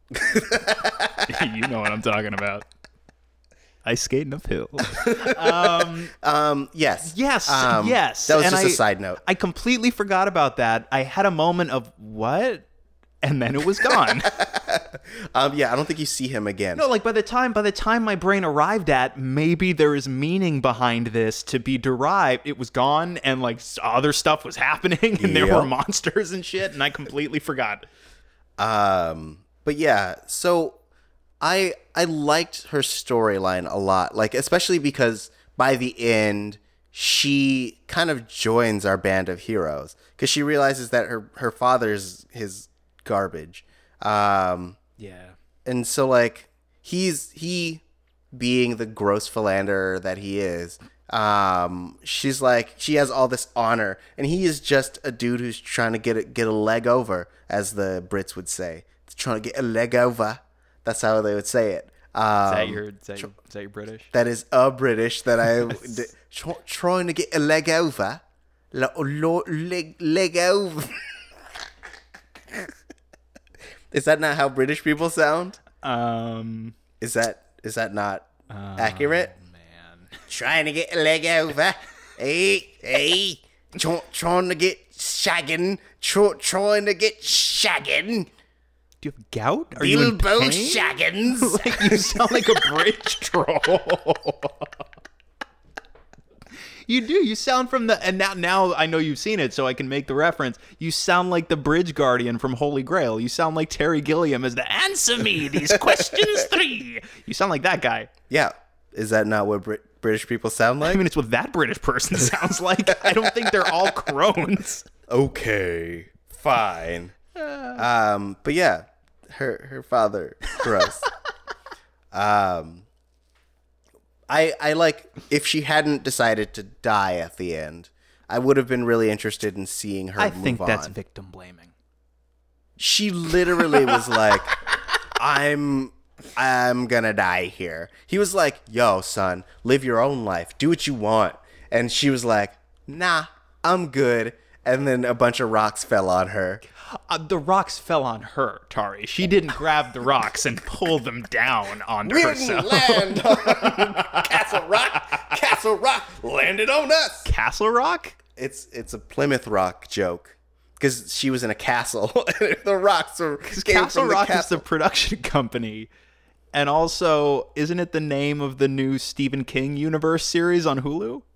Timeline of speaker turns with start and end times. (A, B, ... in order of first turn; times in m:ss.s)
0:00.1-0:01.4 A
0:01.2-0:02.6 B
0:03.8-0:06.1 B
0:05.0-0:09.2 A
0:07.0-0:12.7 B
0:13.2-0:14.3 B
0:13.9-0:16.8 A
0:16.8-0:27.8 B
0:25.2-0:25.7 A
0:28.6-0:30.8 A
0:31.4-0:44.8 A
0:45.0-0:45.3 B
0:45.6-1:02.8 A
1:02.5-1:04.1 B
1:04.1-1:11.1 A
1:13.9-1:15.6 A
1:15.8-1:16.8 B
1:17.0-1:19.3 A
1:18.5-1:20.1 B
1:20.3-1:28.3 A
1:29.0-1:34.7 B
1:29.7-1:32.7 A
1:36.9-1:48.1 B
1:45.7-1:46.3 A
1:48.3-1:51.0 A
1:50.8-1:54.8 B
1:52.9-1:53.8 A
1:55.1-1:57.1 A
1:57.4-1:57.8 B
1:57.8-2:01.0 A
2:02.1-2:02.8 A
2:04.3-2:10.9 A
2:10.2-2:11.7 B
2:12.8-2:14.6 A
2:13.8-2:14.0 B
2:15.1-2:26.6 A
2:26.9-2:34.6 B
2:32.0-2:37.2 A
2:37.2-2:38.2 B
2:38.4-2:44.6 A
2:43.4-2:45.9 B
2:46.5-2:51.2 B